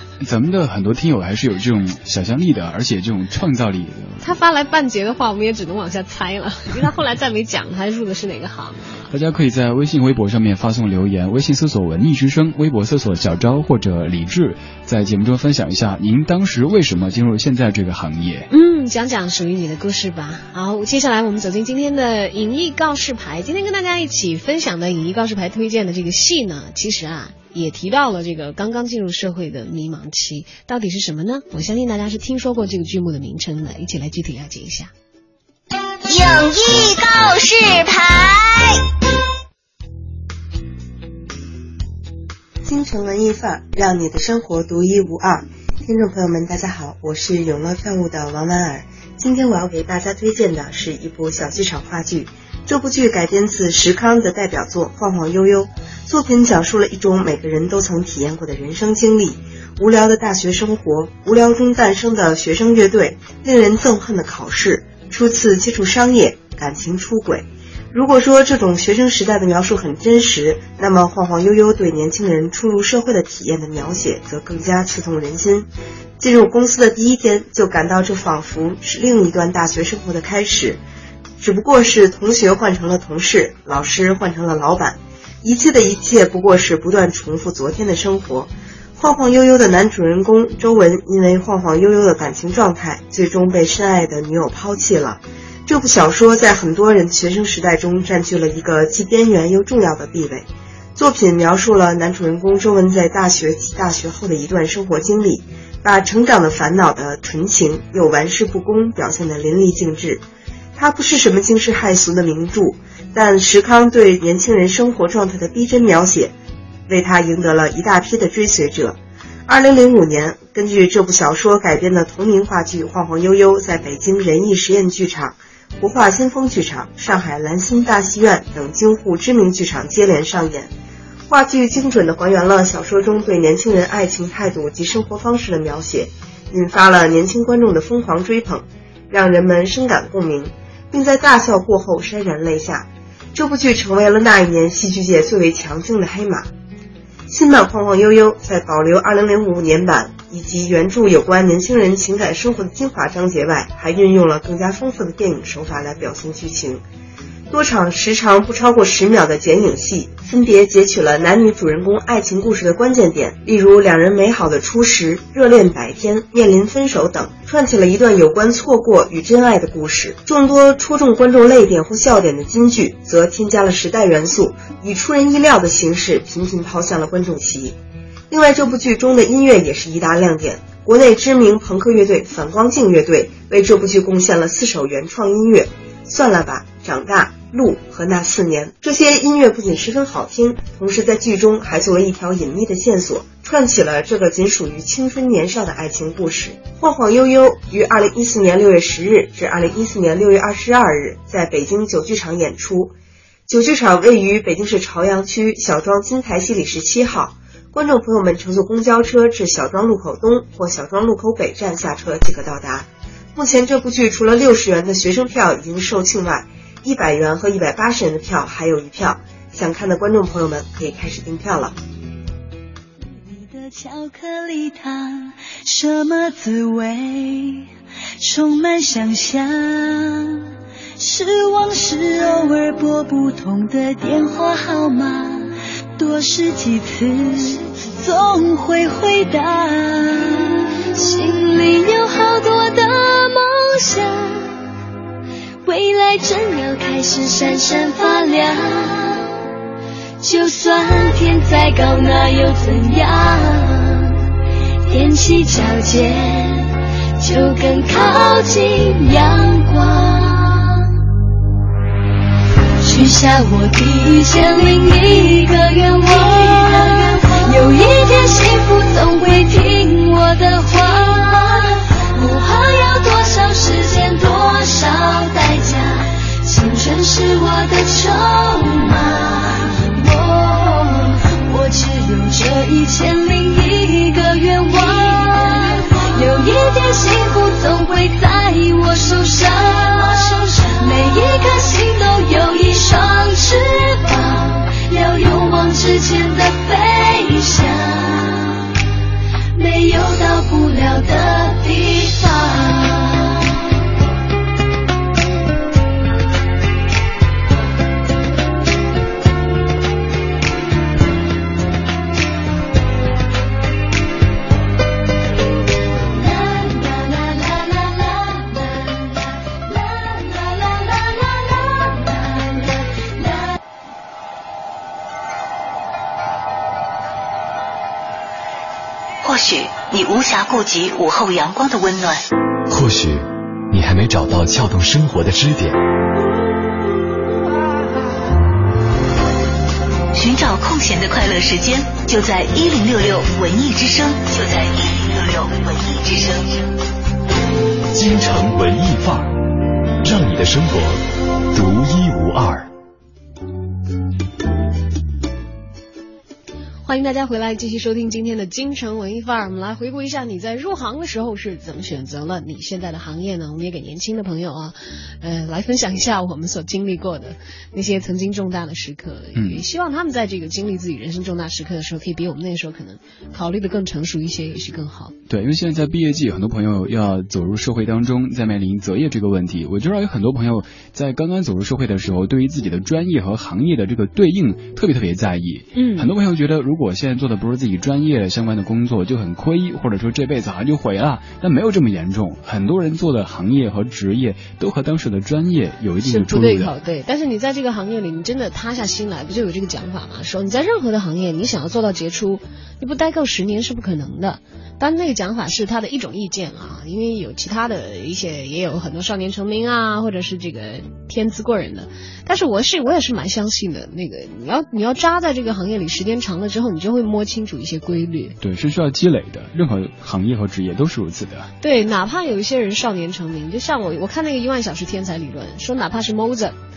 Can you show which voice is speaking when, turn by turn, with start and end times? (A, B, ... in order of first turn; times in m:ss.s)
0:00.2-0:04.3 A
0:04.2-0:09.1 B
0:09.1-0:18.5 A
0:18.5-0:34.9 B
0:36.1-0:38.8 C
0:42.6-1:15.7 D
1:16.2-1:20.8 D
1:21.4-1:50.2 D
1:50.8-1:56.3 D
1:56.9-2:10.7 D
2:11.3-2:26.5 D
2:27.3-2:36.8 D
2:37.5-2:57.8 D
2:58.3-3:23.0 D
3:23.5-3:41.8 D
3:43.1-4:04.6 E
4:05.6-4:09.4 E
4:10.2-4:14.3 E
4:14.9-4:21.0 E
4:22.8-4:58.7 E
4:59.6-5:03.6 E
5:16.2-5:23.6 E
5:29.2-5:32.2 C
5:32.7-5:35.8 F
5:40.1-5:46.7 C
5:47.9-5:49.3 F
5:50.0-5:52.7 F
5:56.8-6:15.2 B
6:09.4-6:09.6 A
6:15.3-6:36.7 A
6:25.8-6:26.1 B
6:36.0-6:58.4 B
6:58.4-7:01.5 A
7:01.6-7:06.6 B